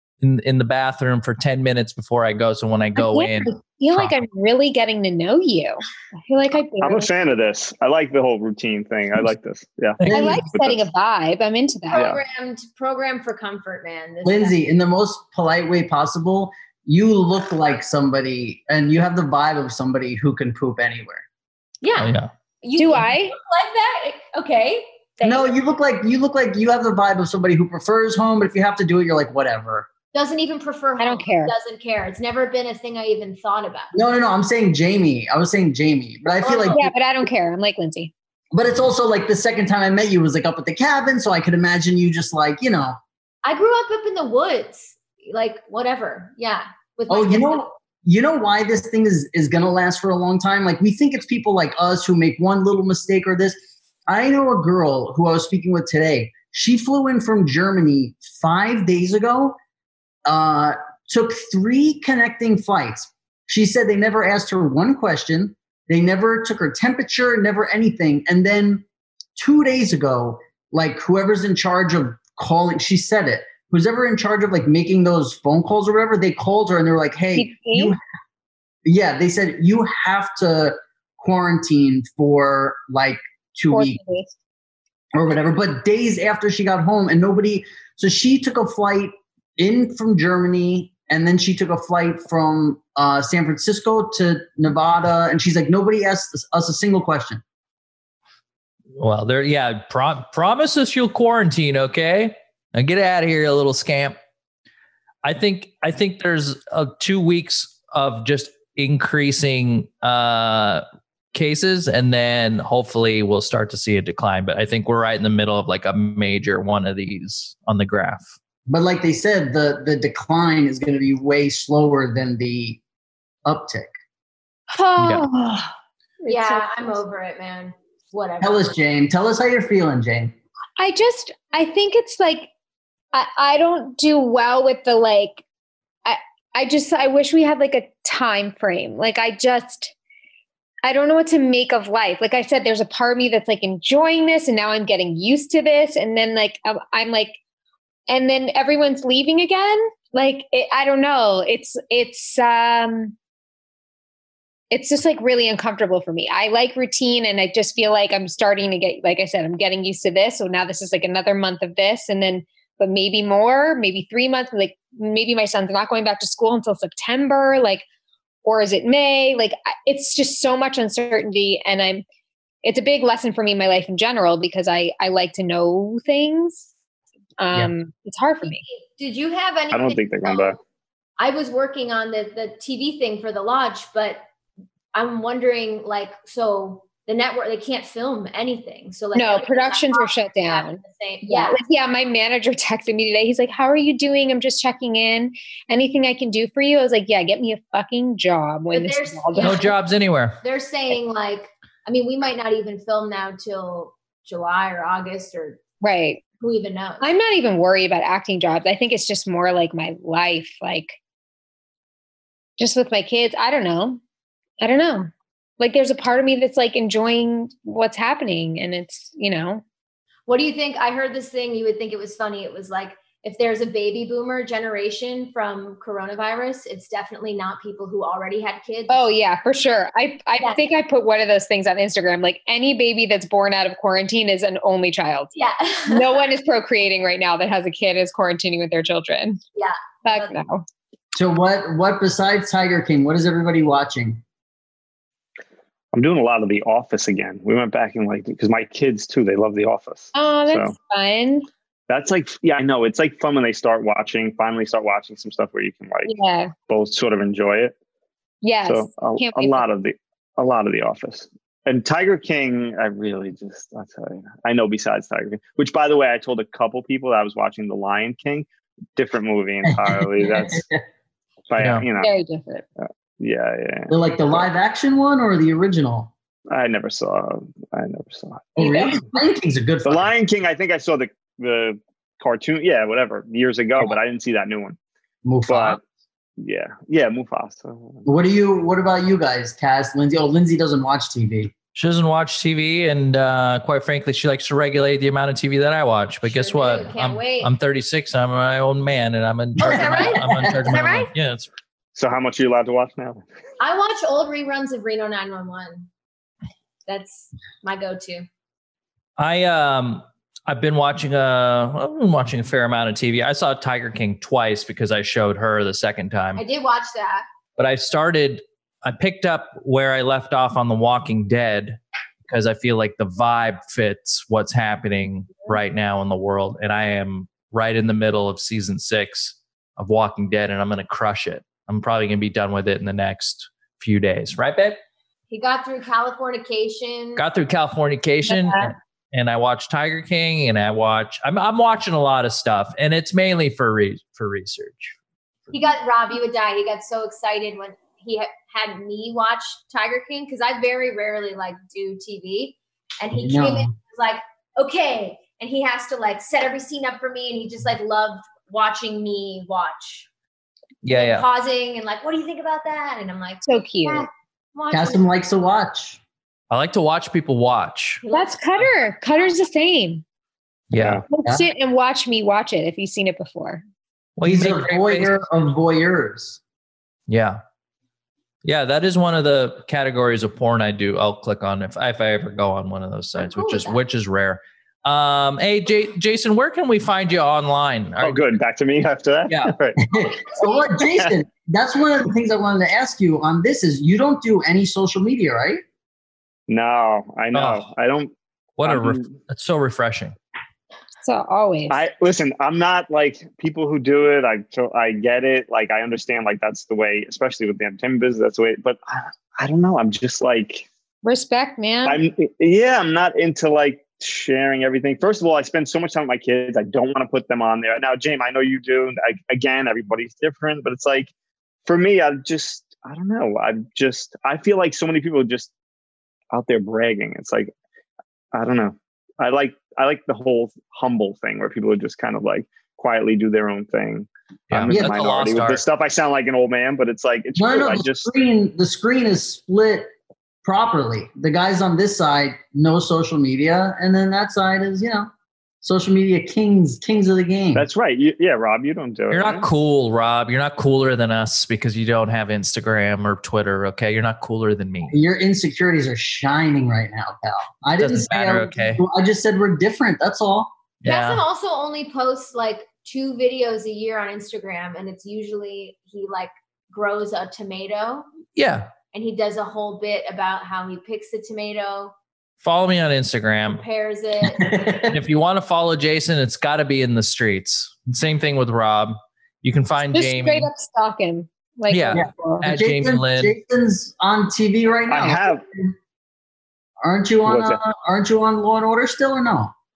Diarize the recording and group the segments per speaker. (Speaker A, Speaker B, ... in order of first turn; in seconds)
Speaker A: 0.2-4.1, 10.0-10.5, 22.0-22.3, 99.0-104.2, 105.2-118.3, 125.0-125.2, 199.4-200.4, 271.6-271.9, 291.8-301.5, 309.2-316.4, 317.6-334.8, 337.2-344.9, 360.8-361.3, 366.5-368.0, 370.7-371.0, 374.2-375.2, 377.1-377.4, 378.4-388.4, 389.3-389.5, 397.3-397.7, 398.6-400.2, 434.5-435.6, 449.1-455.0, 457.8-458.8, 460.8-461.2, 468.4-468.7, 472.4-473.6, 474.9-480.5, 481.7-483.3
Speaker B: 3.0-7.1, 10.1-12.0, 22.8-23.4, 31.0-31.5, 36.7-38.1, 77.3-78.0, 83.7-84.3, 124.7-127.0, 130.8-132.5, 133.1-135.4, 136.1-139.9, 140.8-147.4, 148.1-153.2, 154.7-167.8, 168.4-172.0, 172.6-176.7, 177.4-178.6, 189.2-199.7, 205.8-206.2, 207.0-211.0, 212.6-214.0, 214.6-219.6, 228.9-235.3, 235.9-239.4, 240.1-240.7, 250.1-251.5, 256.1-256.5, 258.4-259.7, 272.0-272.6, 338.3-338.8, 363.4-364.1, 368.1-370.0, 371.1-373.6, 401.0-401.8, 411.0-412.0, 479.9-482.4
Speaker C: 6.8-10.8, 11.9-12.2, 179.7-180.6, 245.9-250.7, 251.9-256.1, 256.7-257.8, 258.6-270.6, 271.5-272.1, 272.8-274.4, 276.5-279.1, 279.8-284.8, 285.5-285.8, 286.4-288.1, 301.9-303.2, 370.8-371.0, 388.0-390.0, 390.9-391.1, 396.5-398.1, 398.6-399.2, 401.7-410.7, 411.9-421.1, 421.7-425.5, 426.3-427.5, 428.3-438.1, 447.6-449.5, 484.9-485.4, 487.3-487.6
Speaker D: 11.9-14.6, 21.8-25.5, 30.1-33.9, 36.4-36.9, 43.4-47.7, 126.3-128.7, 178.4-180.6, 181.2-184.2, 184.9-191.6, 198.7-199.8, 200.4-205.6, 206.4-207.1, 220.3-229.1, 230.4-230.7, 235.3-236.2, 239.6-240.3, 296.2-297.5, 299.6-301.1, 303.6-305.9, 306.9-308.3, 316.4-317.2, 335.3-337.2, 345.5-360.1, 360.9-365.0, 368.0-368.6, 383.2-383.8, 460.9-468.1, 468.9-471.9, 473.4-474.6
Speaker E: 14.2-21.2, 25.2-29.9, 33.9-36.8, 38.5-43.0, 47.1-59.6, 60.3-68.9, 69.4-78.0, 78.8-84.0, 85.1-97.4, 118.7-122.8, 123.5-123.9, 128.4-130.3, 241.2-244.2, 269.6-270.8, 273.9-276.1, 278.6-280.1, 285.2-285.8, 288.1-291.5, 299.6-300.7, 353.1-353.7, 364.7-366.0, 374.2-376.4, 389.8-395.6, 434.7-435.0, 437.4-439.9, 440.4-445.1, 445.6-447.6, 454.9-460.5, 474.2-475.0, 481.9-485.8, 486.8-489.5